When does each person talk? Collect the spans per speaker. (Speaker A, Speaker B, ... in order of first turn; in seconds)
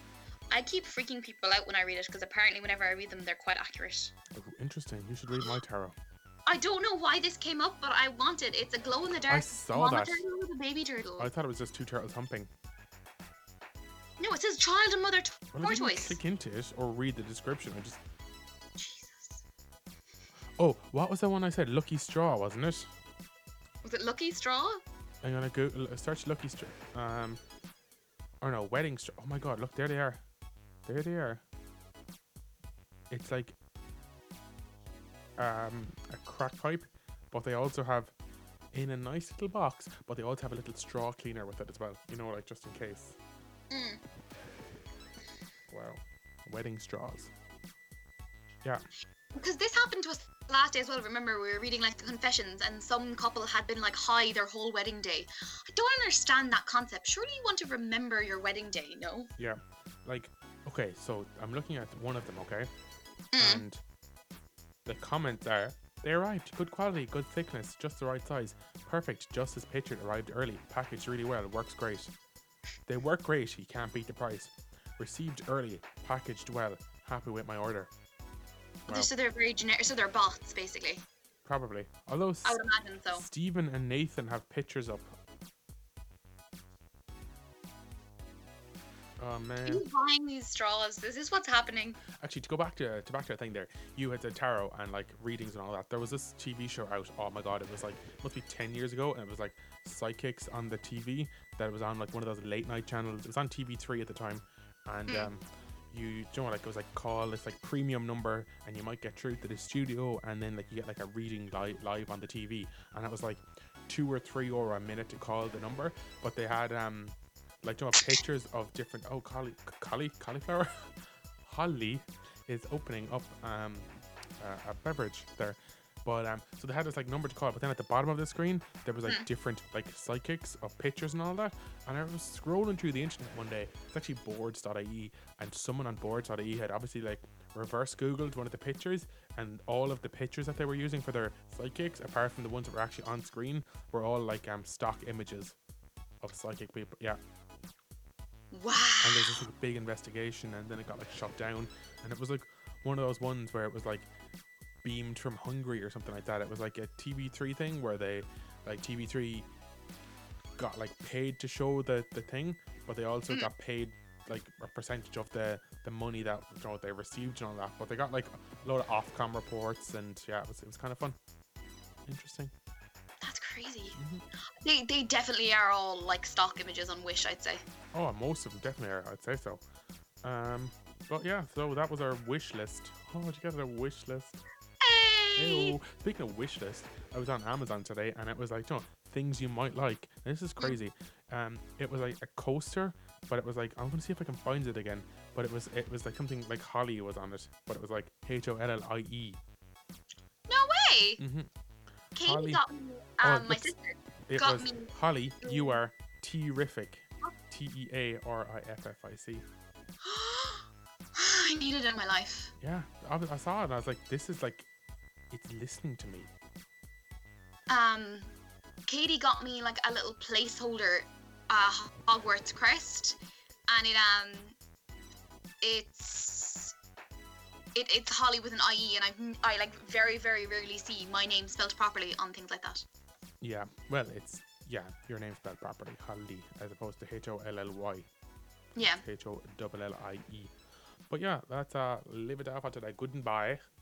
Speaker A: 0.5-4.1, 6.5-11.3, 14.2-16.2, 18.8-19.4, 23.8-24.8, 43.7-44.0, 49.3-59.3, 63.3-63.6, 78.9-81.0, 82.4-83.2, 89.6-92.0, 148.5-149.4, 173.2-174.0, 174.6-177.6, 184.8-185.8, 200.5-201.2, 202.1-205.8, 210.0-212.5, 217.7-218.3, 218.9-223.2, 223.7-224.5, 225.6-226.7, 227.7-232.8, 238.8-239.0
Speaker B: 4.3-5.9, 9.3-10.2, 11.2-12.5, 15.5-18.0, 20.6-22.9, 25.2-27.4, 28.4-30.2, 30.9-31.4, 33.1-33.5, 35.4-38.1, 38.7-43.1, 45.7-47.3, 59.4-62.7, 63.4-63.8, 64.8-72.1, 72.9-77.9, 81.4-82.6, 83.1-85.1, 89.2-89.8, 92.2-120.9, 121.4-123.9, 124.4-145.5, 146.2-147.2, 149.0-154.1, 154.8-159.4, 160.6-171.2, 172.1-172.5, 173.9-174.2, 177.9-179.6, 180.2-184.4, 185.4-199.4, 201.2-201.5, 202.2-202.6, 203.2-203.7, 204.3-209.4, 212.6-214.7, 215.3-216.3, 233.4-238.1, 238.8-240.5, 241.1-243.6